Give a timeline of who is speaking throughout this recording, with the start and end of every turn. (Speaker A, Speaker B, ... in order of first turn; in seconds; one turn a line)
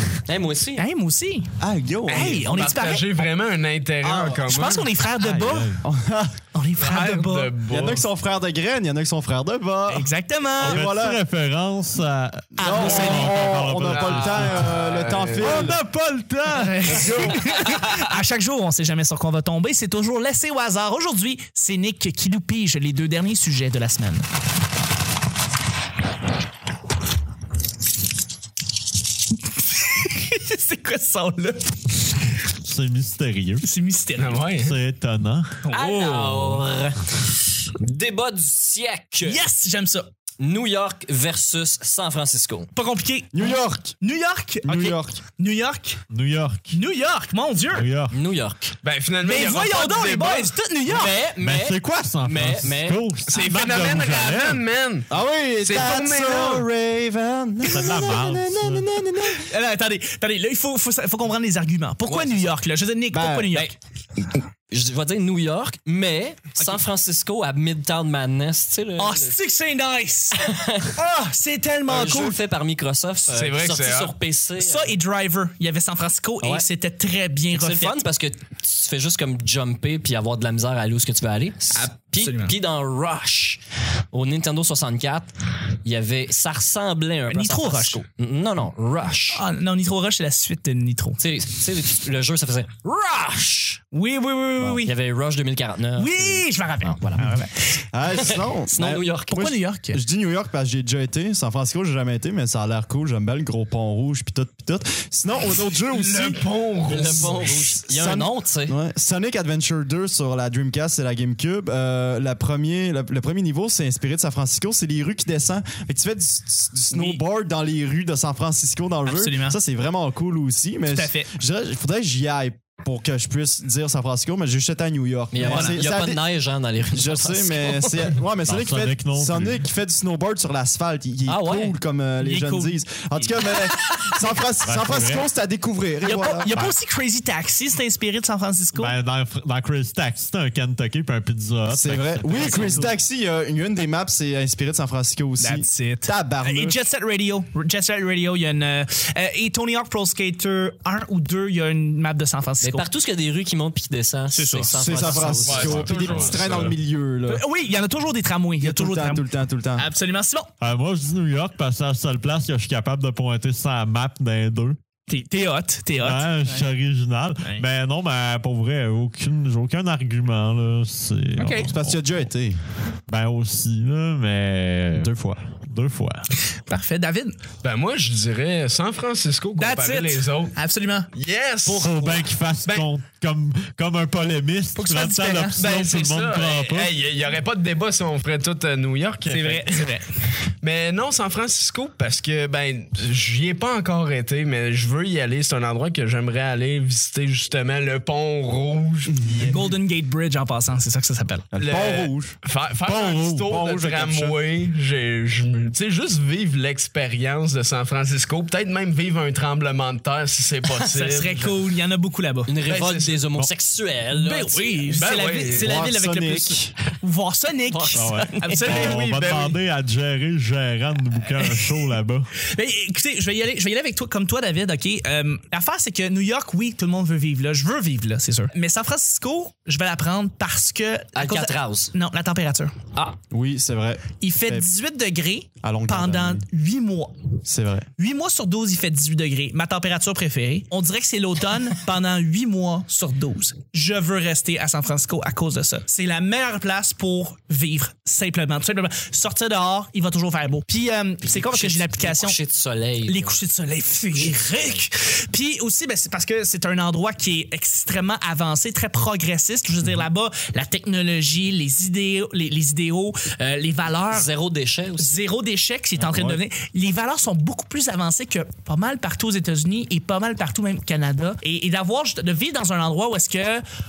Speaker A: 0.3-0.8
Speaker B: 0.8-1.5
Speaker C: 1.6-2.7
Speaker B: 2.1-3.3
Speaker D: 2.2-4.9
Speaker C: 4.0-4.4
Speaker B: 4.3-5.8
Speaker E: 5.2-5.8
Speaker C: 5.8-6.4
Speaker B: 6.5-7.5
Speaker D: 6.8-8.1
Speaker C: 7.7-10.1
Speaker B: 9.9-10.8
Speaker C: 10.6-11.2
Speaker E: 10.6-14.7
Speaker C: 12.6-15.8
Speaker B: 12.6-13.5
Speaker D: 13.8-15.8
Speaker E: 15.4-17.2
Speaker B: 16.4-24.3
Speaker D: 16.9-17.8
Speaker C: 17.0-17.4
Speaker B: 29.9-31.8
Speaker E: 32.6-33.7
Speaker B: 33.6-34.4
Speaker D: 34.2-34.8
Speaker E: 34.5-35.7
Speaker B: 35.6-36.6
Speaker A: 35.7-39.4
Speaker B: 39.2-40.1
Speaker A: 40.4-42.7
Speaker B: 42.8-46.0
Speaker C: 43.3-44.0
Speaker C: 44.6-45.2
Speaker E: 46.1-46.8
Speaker B: 46.7-47.9
Speaker E: 47.7-48.2
Speaker A: 48.1-48.8
Speaker D: 48.8-50.5
Speaker B: 49.2-51.1
Speaker A: 50.9-53.0
Speaker E: 51.4-54.7
Speaker D: 53.3-55.1
Speaker C: 55.1-59.5
Speaker D: 55.6-56.7
Speaker E: 57.7-58.9
Speaker B: 59.4-63.7
Speaker A: 62.1-62.5
Speaker C: 63.1-63.5
Speaker A: 63.5-69.4
Speaker B: 69.0-72.4
Speaker A: 70.4-70.9
Speaker A: 71.9-75.0
Speaker D: 73.3-74.1
Speaker B: 74.6-78.0
Speaker A: 77.5-83.6
Speaker B: 81.7-82.5
Speaker A: 84.1-85.3
Speaker A: 85.8-89.4
Speaker B: 87.3-88.0
Speaker B: 89.3-91.2
Speaker A: 91.2-93.8
Speaker B: 93.9-94.9
Speaker A: 94.6-97.3
Speaker B: 96.0-97.8
Speaker C: 97.9-106.4
Speaker A: 98.1-99.6
Speaker B: 99.3-100.0
Speaker D: 105.9-107.8
Speaker B: 106.0-106.4
Speaker A: 106.8-108.8
Speaker C: 107.0-126.2
Speaker B: 116.9-117.2
Speaker B: 119.1-119.6
Speaker B: 120.9-121.3
Speaker A: 125.3-128.2
Speaker B: 125.4-125.8
Speaker C: 126.9-136.7
Speaker E: 128.5-129.6
Speaker A: 131.3-131.8
Speaker B: 132.2-134.2
Speaker E: 134.7-135.3
Speaker B: 136.0-139.0
Speaker E: 138.8-142.7
Speaker C: 141.7-146.8
Speaker B: 142.3-142.9
Speaker B: 145.4-152.9
Speaker A: 152.6-156.6
Speaker B: 154.3-154.7
Speaker C: 154.7-157.4
Speaker D: 155.2-156.8
Speaker E: 155.6-156.3
Speaker B: 157.3-159.2
Speaker C: 158.6-159.9
Speaker B: 159.8-160.5
Speaker E: 160.6-164.8
Speaker B: 165.1-166.7
Speaker E: 166.0-172.2
Speaker B: 171.4-171.7
Speaker C: 171.7-172.6
Speaker E: 173.1-176.2
Speaker C: 175.0-175.3
Speaker B: 176.5-177.4
Speaker D: 177.6-180.5
Speaker B: 179.6-181.1
Speaker D: 181.1-182.9
Speaker E: 181.7-186.9
Speaker B: 184.8-185.6
Speaker D: 185.6-189.9
Speaker B: 189.3-190.1
Speaker D: 190.6-199.6
Speaker C: 199.2-199.5
Speaker B: 199.4-201.5
Speaker C: 201.5-202.3
Speaker D: 201.6-211.5
Speaker E: 202.8-203.5
Speaker C: 203.5-204.4
Speaker B: 210.9-212.5
Speaker A: 212.5-215.0
Speaker D: 212.7-213.2
Speaker B: 214.1-219.2
Speaker D: 214.9-215.7
Speaker C: 215.6-216.7
Speaker A: 217.7-218.7
Speaker E: 217.9-222.3
Speaker D: 218.7-219.6
Speaker B: 221.4-221.7
Speaker B: 222.4-232.8
Speaker A: 231.2-231.9
Speaker C: 233.3-234.7
Speaker B: 234.2-237.3
Speaker C: 235.6-236.5
Speaker C: 237.5-237.9
Speaker B: 238.0-252.4
Speaker A: 251.3-253.4
Speaker B: 253.1-264.3
Speaker A: 264.1-265.2
Speaker B: 265.0-273.6
Speaker E: 266.1-266.4